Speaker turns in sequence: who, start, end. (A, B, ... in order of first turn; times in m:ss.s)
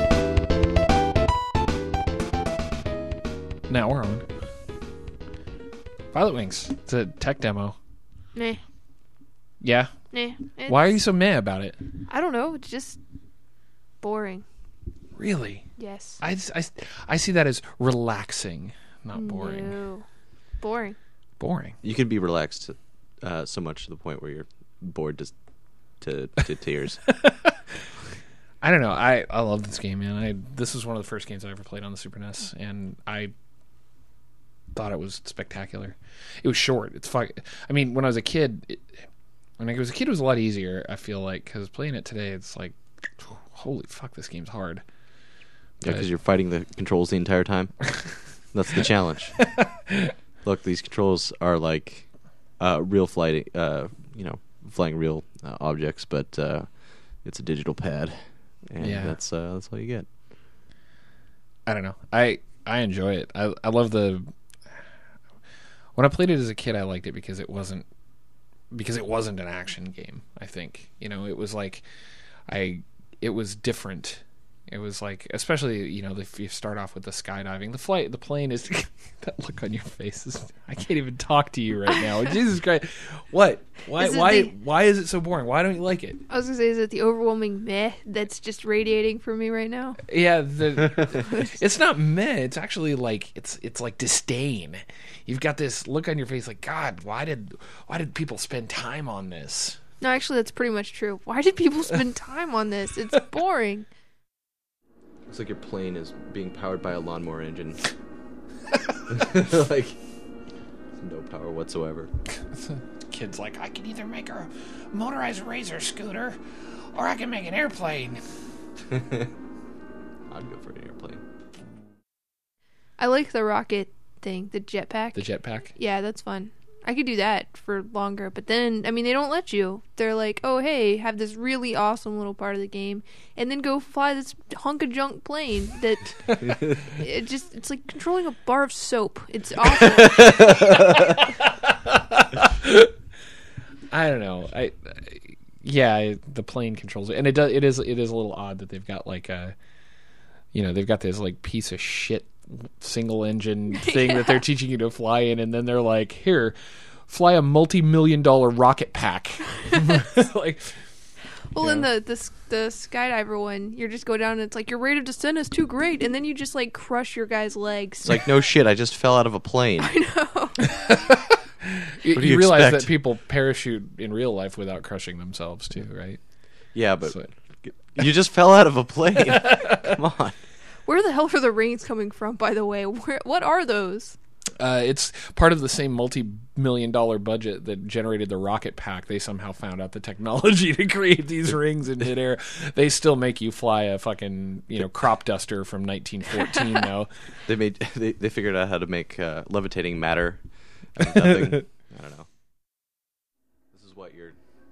0:03.7-0:04.2 A
0:06.1-0:07.8 A
0:08.3-0:08.6 B
0:09.6-0:09.9 A
0:10.1-0:11.0 B
0:10.6-0:11.8 A
0:12.1-0:13.0 B
0:14.0-0:14.4 B
0:15.2-0:15.7 A
0:15.8-0:16.2 B
0:16.2-0:19.8 A
0:19.1-0:20.0 B
0:20.6-0:21.0 B
0:21.4-0:21.8 A
0:21.8-0:25.3 C
0:26.0-0:27.0 C
0:27.1-0:27.6 A
0:28.6-0:33.3 A
0:34.7-0:38.9 A
0:39.6-0:44.8 A
0:45.8-0:47.9 C
0:48.5-0:49.4 C
0:49.4-0:50.1 A
0:50.4-0:52.1 C
0:52.6-1:00.1 C
0:58.8-0:59.2 A
1:01.6-1:04.3 A
1:06.0-1:07.9 A
1:08.7-1:11.8 A
1:12.5-1:26.2 A
1:24.0-1:24.5 B
1:26.3-1:30.0 B
1:30.1-1:39.8 A
1:31.1-1:31.6 B
1:40.0-1:43.9 B
1:45.3-1:47.8 C
1:49.1-1:50.0 C
1:51.0-1:52.1 C
1:52.4-1:56.4 A
1:56.9-1:58.2 A
1:58.9-1:59.3 C
2:00.3-2:01.2 C
2:03.0-2:20.4 B
2:05.1-2:05.7 A
2:16.4-2:16.9 C
2:19.8-2:21.1 C
2:20.6-2:22.9 A
2:23.9-2:29.5 A
2:30.5-2:36.6 A
2:33.7-2:34.4 B
2:37.1-2:40.7 A
2:41.5-2:48.3 B
2:41.6-2:41.9 A
2:48.0-2:49.9 C
2:49.8-2:50.6 B
2:50.6-2:56.2 A
2:52.1-2:53.0 C
2:56.7-3:00.4 C
2:57.0-2:57.3 A
2:59.3-2:59.9 A
3:00.8-3:04.2 B
3:04.6-3:17.1 A
3:17.5-3:20.4 C
3:20.9-3:22.3 C
3:23.7-3:24.4 C